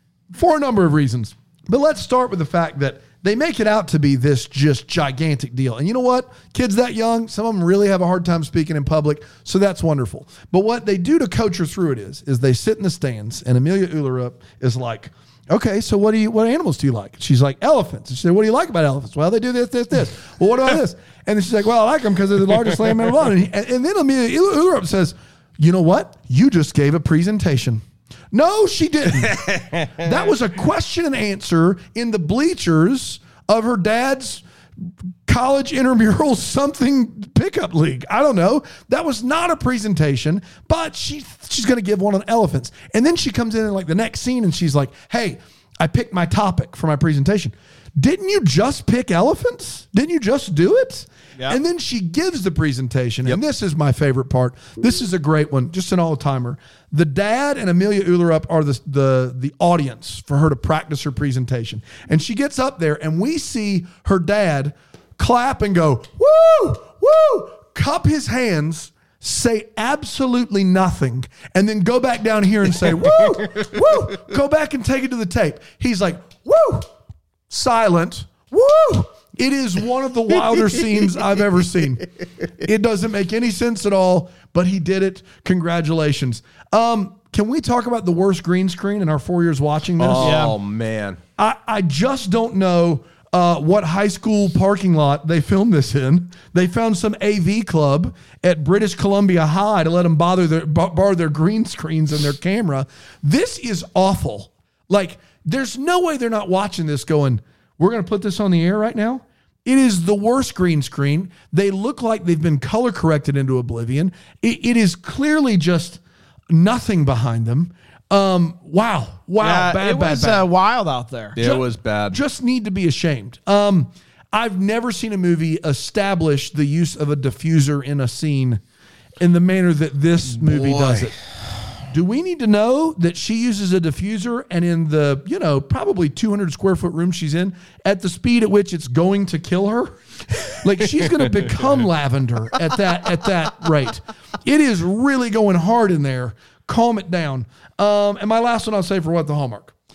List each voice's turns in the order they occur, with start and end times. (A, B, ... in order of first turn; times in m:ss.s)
0:00.3-1:16.9 A
0:29.2-0:30.0 B
1:17.5-1:22.1 A
1:22.6-1:30.5 A
1:30.0-1:31.2 B
1:30.2-1:30.5 C
1:31.4-1:56.0 A
1:56.5-2:00.5 A
1:59.4-2:01.4 C
2:01.4-2:02.2 B
2:01.4-2:08.6 A
2:09.2-2:11.2 A
2:10.4-2:11.1 B
2:11.9-2:20.0 A
2:20.5-2:29.7 A